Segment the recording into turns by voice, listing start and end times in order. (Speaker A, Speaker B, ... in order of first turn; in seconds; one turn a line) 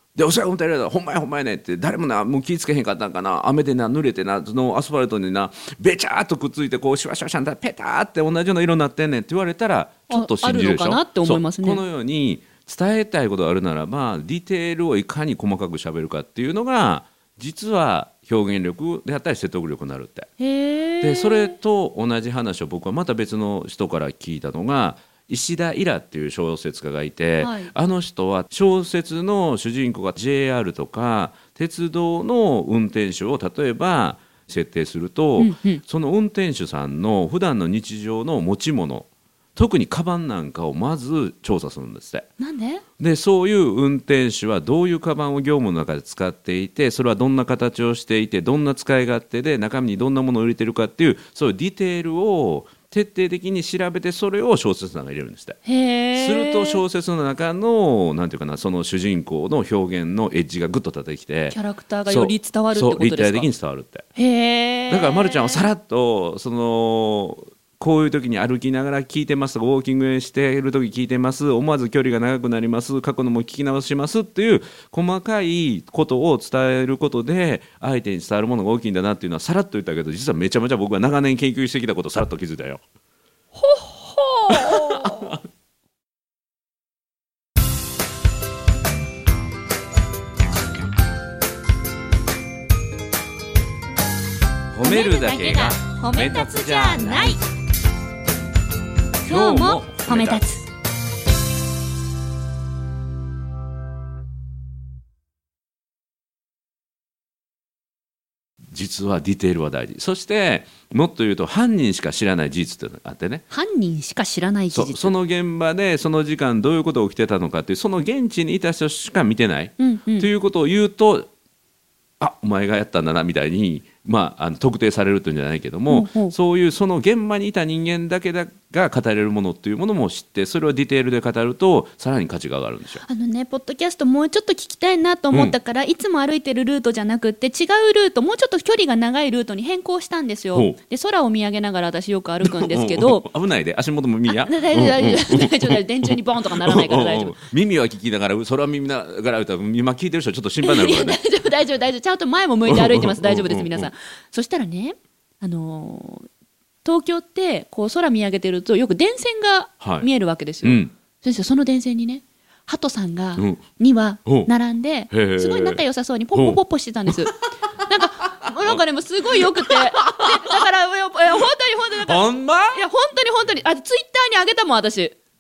Speaker A: 0.2-20.3
Speaker B: 10.1-11.8
Speaker B: 20.4-21.6
Speaker A: 21.0-42.3
Speaker B: 27.4-27.7
Speaker B: 35.4-35.8
Speaker B: 42.4-42.8
Speaker A: 43.0-55.6
Speaker B: 55.7-56.8
Speaker A: 56.1-64.1
Speaker B: 61.5-63.5
Speaker B: 64.2-65.7
Speaker A: 64.9-82.8
Speaker B: 83.5-85.3
Speaker A: 84.5-85.4
Speaker A: 94.7-97.4
Speaker B: 94.8-97.4
Speaker B: 99.2-100.6
Speaker A: 99.2-100.5
Speaker A: 108.7-113.4
Speaker B: 113.5-115.2
Speaker A: 114.7-121.3
Speaker B: 119.8-120.3
Speaker A: 122.2-133.0
Speaker B: 125.9-126.3
Speaker B: 133.0-143.2
Speaker A: 142.4-151.2
Speaker B: 144.3-147.4
Speaker B: 150.6-156.3
Speaker A: 152.7-153.9
Speaker B: 156.8-175.2
Speaker A: 159.8-160.1
Speaker A: 160.6-160.9
Speaker A: 163.4-163.6
Speaker A: 164.3-164.5
Speaker A: 165.1-165.8
Speaker A: 166.3-167.2
Speaker A: 169.4-170.6
Speaker A: 172.0-172.8